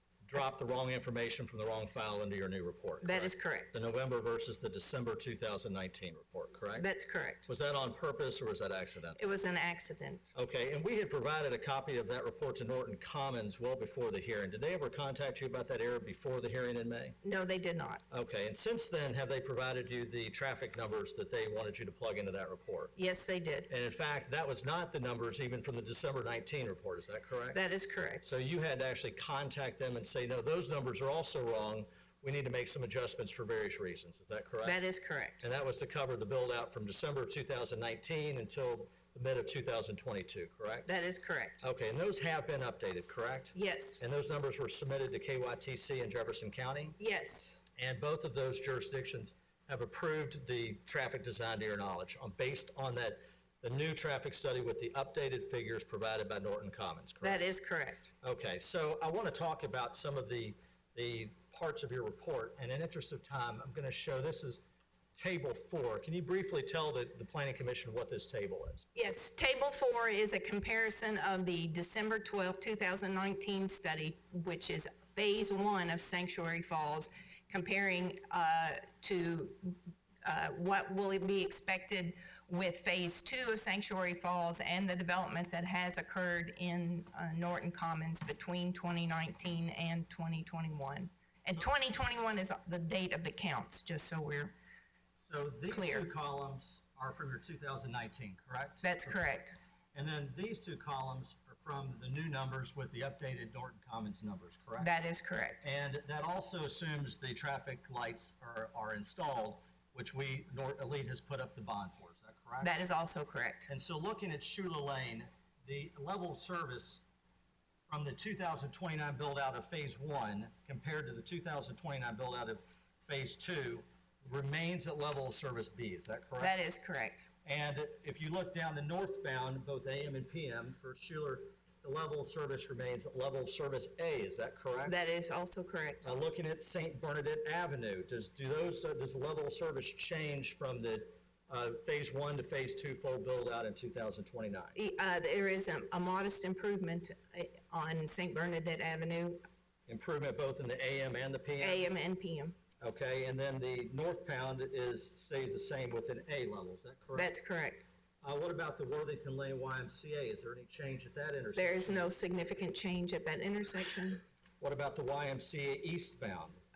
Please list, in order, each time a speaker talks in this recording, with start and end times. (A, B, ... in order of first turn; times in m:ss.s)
0:00.2-0:06.9 A
0:03.0-0:03.7 B
0:06.8-0:07.5 B
0:07.5-0:09.2 A
0:09.2-0:10.3 B
0:10.3-0:17.2 A
0:17.2-0:18.0 B
0:18.1-0:22.9 A
0:23.0-0:23.7 B
0:23.7-0:27.6 A
0:27.5-0:28.2 B
0:28.2-0:34.8 A
0:34.6-0:35.4 B
0:35.4-0:40.9 A
0:40.8-0:41.6 B
0:41.6-0:47.0 A
0:43.5-0:44.0 B
0:47.0-0:47.6 B
0:47.8-0:57.4 A
0:57.2-0:58.1 B
0:58.2-1:04.6 A
1:05.1-1:08.8 A
1:08.9-1:34.5 B
1:35.2-1:39.2 A
1:35.7-1:36.1 B
1:38.8-1:39.6 B
1:39.9-1:44.9 A
1:44.8-1:45.6 B
1:45.6-1:52.7 A
1:52.6-1:53.7 B
1:53.7-1:57.0 A
1:57.9-2:06.6 A
2:06.4-2:07.3 B
2:07.4-2:14.9 A
2:14.8-2:16.0 B
2:16.0-2:24.8 A
2:24.7-2:29.4 B
2:29.9-2:31.9 A
2:31.6-2:32.6 B
2:32.8-2:37.3 A
2:37.1-2:37.8 B
2:38.2-2:42.1 A
2:41.6-2:44.2 B
2:44.6-2:46.6 A